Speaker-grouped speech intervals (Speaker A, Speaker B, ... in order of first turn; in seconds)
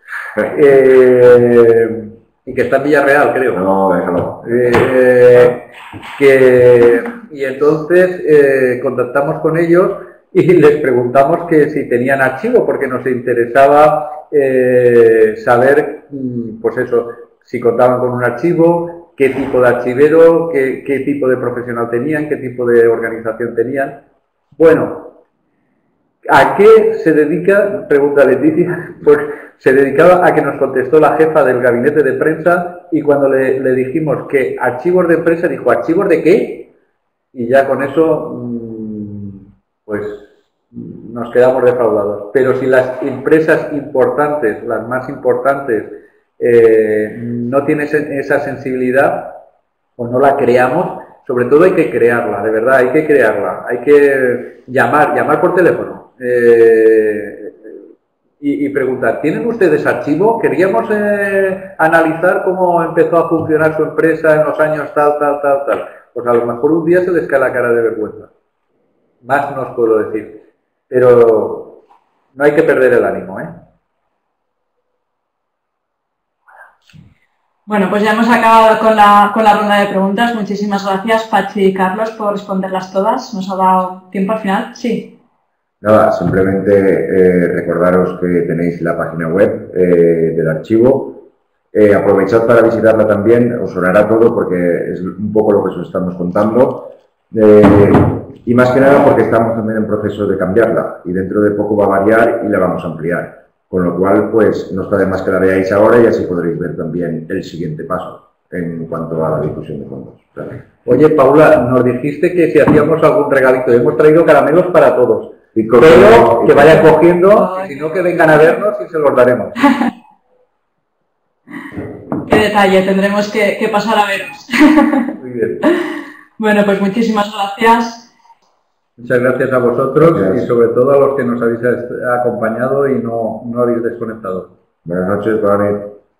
Speaker A: 0.5-3.6, 4.4-24.0, 24.5-25.2, 26.3-36.7, 37.3-49.4, 50.0-57.8, 58.4-68.3, 69.2-71.8, 72.3-73.6, 110.8-119.6, 125.2-125.7, 129.0-134.5
Speaker B: 3.5-4.8, 85.8-110.6, 115.5-116.9, 130.0-130.5, 134.8-136.0
Speaker C: 77.7-85.1, 117.4-117.7, 122.2-128.1